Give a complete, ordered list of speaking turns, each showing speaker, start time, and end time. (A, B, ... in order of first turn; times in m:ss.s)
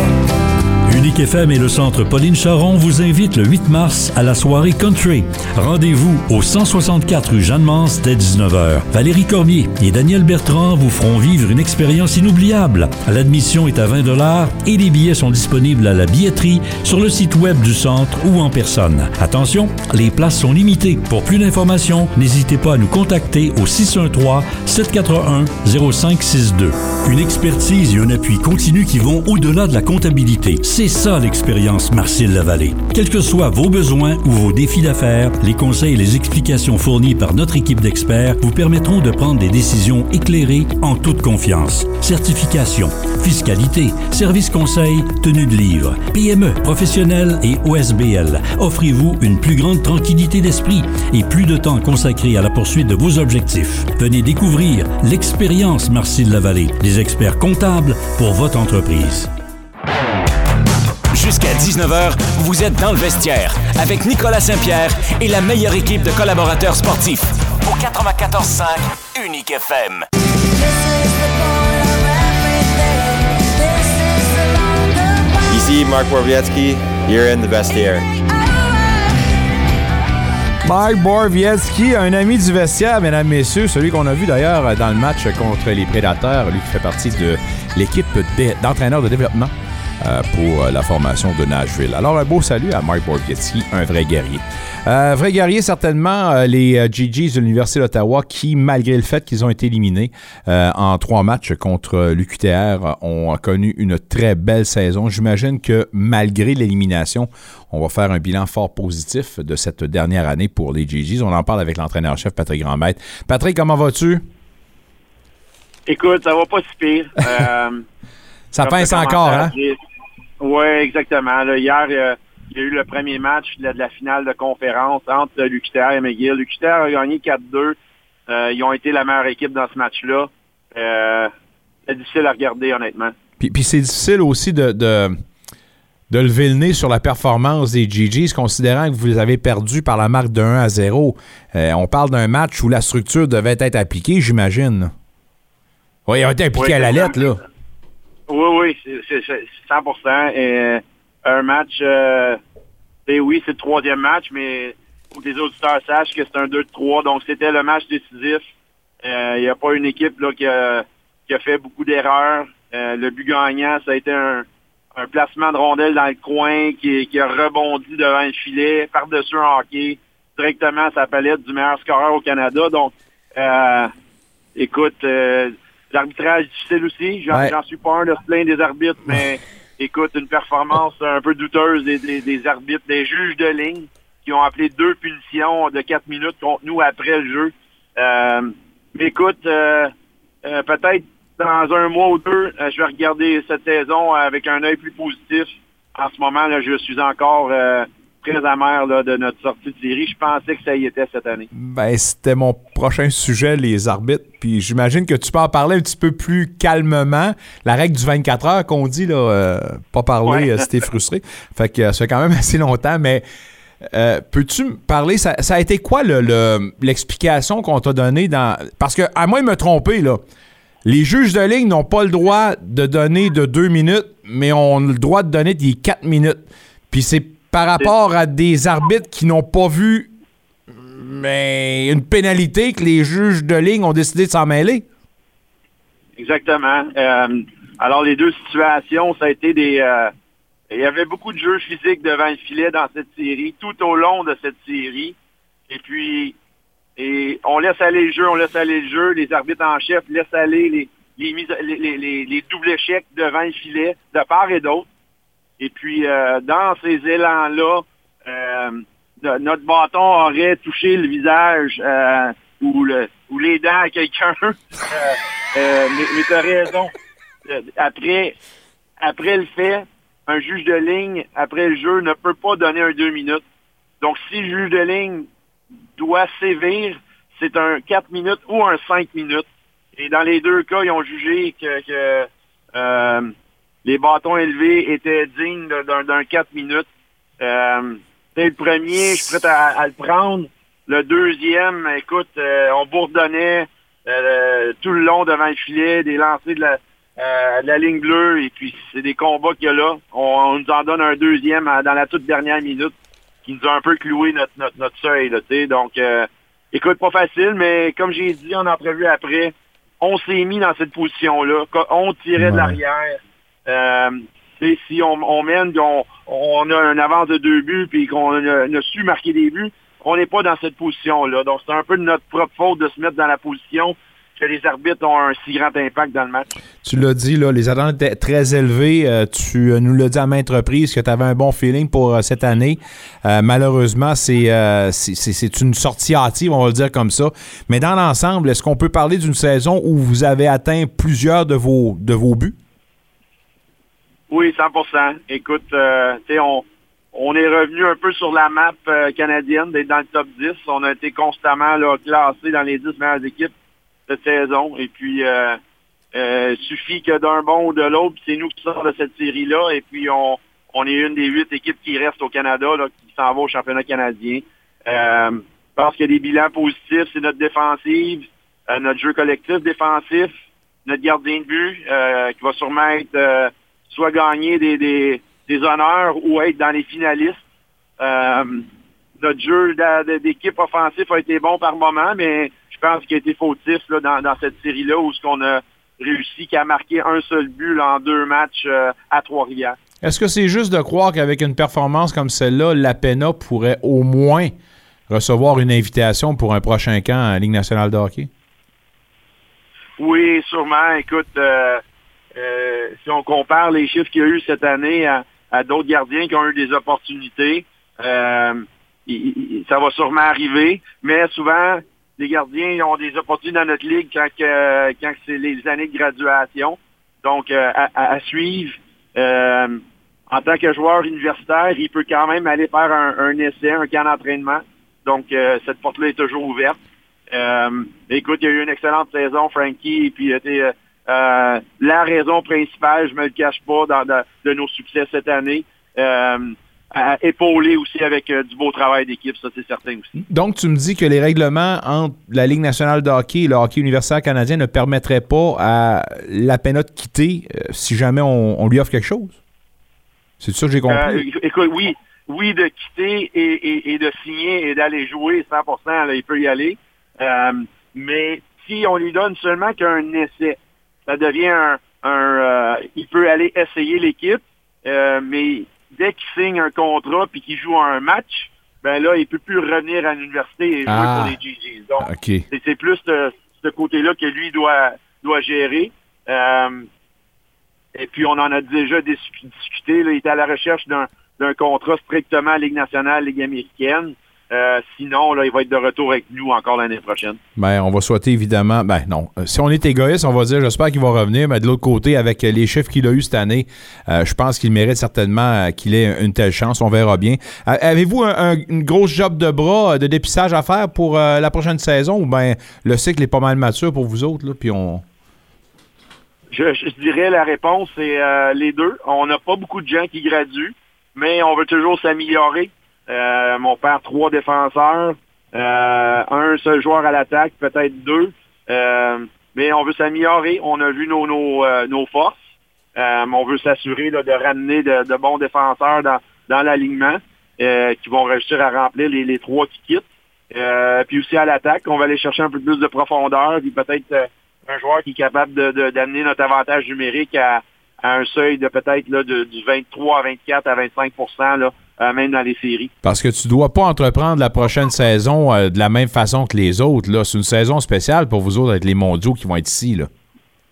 0:00.9-0:59.3 A
1:01.1-1:10.1 B
1:15.6-1:17.5 C
1:20.6-1:54.2 D
1:55.9-1:57.8 E
1:58.5-1:59.5 D
1:58.6-1:59.8 E
2:00.4-2:07.8 E
2:08.3-2:11.3 E
2:11.9-2:13.2 E
2:13.4-2:15.2 D
2:16.1-2:24.9 D
2:26.1-2:27.4 D
2:26.6-2:27.2 E
2:28.3-2:32.4 E
2:33.1-2:38.4 E
2:39.0-2:53.9 E
2:54.6-3:09.9 E
3:10.4-3:21.5 E
3:21.5-3:33.2 D
3:33.9-3:40.2 D
3:40.8-3:50.1 D
3:50.8-3:54.9 D
3:56.2-4:00.1 E
4:00.7-4:05.2 E
4:05.7-4:06.4 E
4:07.0-4:14.9 E
4:15.6-4:26.9 E
4:27.5-4:28.4 E
4:29.0-4:33.4 E
4:34.0-4:35.3 E
4:36.0-4:43.3 E
4:43.8-4:46.9 E
4:47.4-5:02.9 E
5:03.4-5:26.5 E
5:12.4-5:12.8 D
5:26.8-5:42.6 D
5:44.3-5:53.5 E
5:54.1-5:55.6 E
5:56.1-6:10.3 E
6:10.9-6:17.4 E
6:18.0-6:18.7 E
6:19.2-6:29.8 E
6:30.0-6:34.5 D
6:35.1-6:38.3 D
6:40.0-6:41.8 E
6:42.4-7:06.8 E
7:07.3-7:20.1 E
7:20.2-7:29.4 D
7:30.4-7:31.2 D
7:30.9-7:56.9 E
7:50.9-7:51.4 D
7:52.0-7:52.5 D
7:58.0-8:07.4 E
8:07.6-8:25.0 D
8:26.5-8:42.4 E
8:43.0-9:02.9 E
9:03.0-9:10.1 D